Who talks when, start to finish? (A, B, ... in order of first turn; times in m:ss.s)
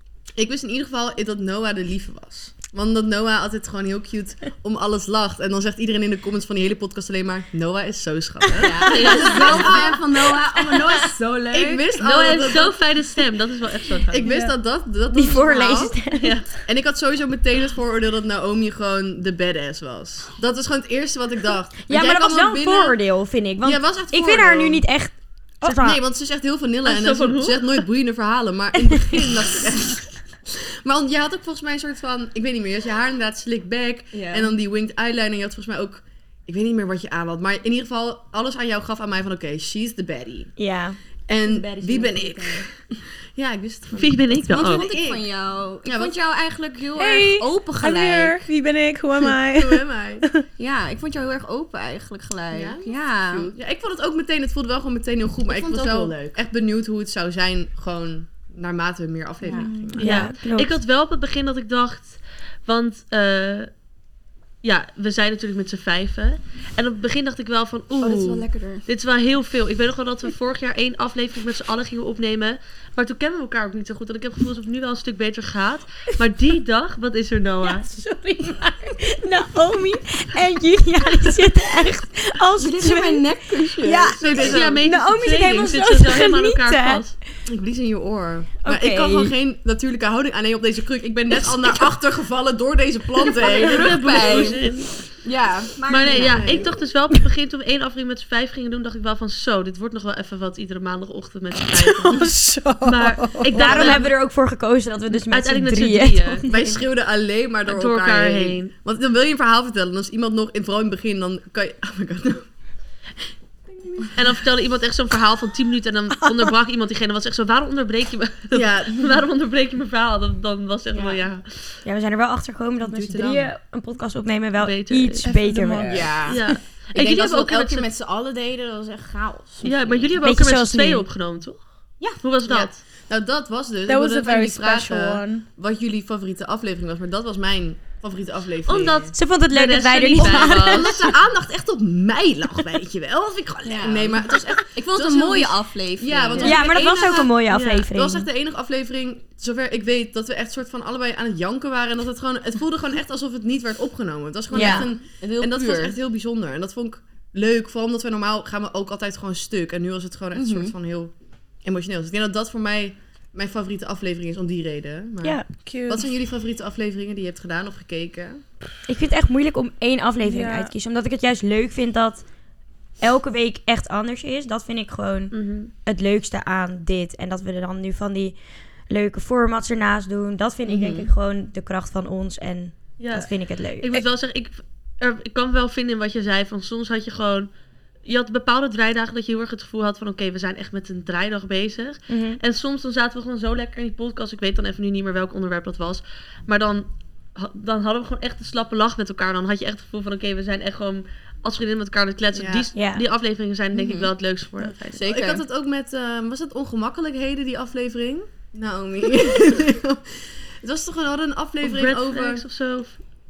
0:00.4-0:10.4 A
0:08.6-0:11.9 B
0:08.9-0:09.8 C
0:11.5-0:12.8 A
0:12.0-0:14.3 C
0:14.1-0:16.0 A
0:14.2-0:14.5 D
0:15.1-0:16.4 E
0:16.2-0:16.5 C
0:16.6-0:23.0 A
0:21.9-0:26.0 E
0:23.6-0:24.8 A
0:25.7-0:40.5 A
0:26.8-0:27.8 C
0:34.1-0:34.5 B
0:40.6-0:41.0 E
0:41.3-0:45.2 A
0:41.4-0:42.7 B
0:43.9-0:44.9 C
0:44.5-0:48.4 B
0:45.8-0:46.2 A
0:47.0-0:50.4 D
0:49.2-0:50.3 A
0:50.6-0:53.5 B
0:52.5-1:00.3 A
0:55.5-0:56.2 B
0:59.4-0:59.7 B
0:59.6-1:00.0 D
1:00.0-1:00.7 E
1:00.0-1:03.7 C
1:04.6-1:17.9 C
1:08.0-1:08.8 B
1:17.6-1:27.0 E
1:22.6-1:24.2 B
1:24.1-1:24.9 A
1:24.2-1:27.1 C
1:27.4-1:34.5 A
1:28.6-1:29.3 E
1:33.4-1:34.6 B
1:33.4-1:34.9 C
1:35.2-1:36.7 B
1:35.9-1:42.2 C
1:36.1-1:36.8 A
1:41.7-1:43.8 D
1:42.8-1:44.1 C
1:43.5-1:46.6 E
1:43.7-1:44.0 A
1:45.1-1:46.4 C
1:46.5-1:52.5 A
1:47.7-1:48.7 C
1:54.1-2:01.8 C
1:58.5-1:59.1 A
2:00.9-2:01.2 B
2:01.8-2:06.2 E
2:02.8-2:03.5 A
2:04.6-2:05.2 C
2:05.2-2:06.4 D
2:05.9-2:06.4 B
2:06.2-2:07.9 C
2:06.9-2:10.1 B
2:09.6-2:11.6 C
2:10.2-2:11.0 E
2:12.2-2:12.8 C
2:12.4-2:19.1 A
2:13.9-2:15.4 D
2:18.6-2:21.0 C
2:19.1-2:21.1 E
2:20.2-2:41.1 A
2:23.6-2:27.2 B
2:26.4-2:28.3 E
2:27.5-2:27.9 C
2:34.5-2:36.0 B
2:34.5-2:34.9 E
2:40.4-2:40.7 B
2:41.6-2:48.4 A
2:45.2-2:45.5 E
2:45.6-2:46.1 D
2:48.9-2:52.2 E
2:50.2-2:50.7 D
2:53.0-2:58.4 E
2:55.3-2:55.7 C
2:58.9-3:04.0 E
3:00.7-3:01.1 B
3:03.0-3:07.5 C
3:08.0-3:25.1 C
3:12.1-3:12.4 E
3:22.3-3:22.7 A
3:22.8-3:23.0 E
3:23.8-3:24.0 B
3:24.9-3:25.4 B
3:25.0-3:32.4 A
3:31.6-3:33.0 C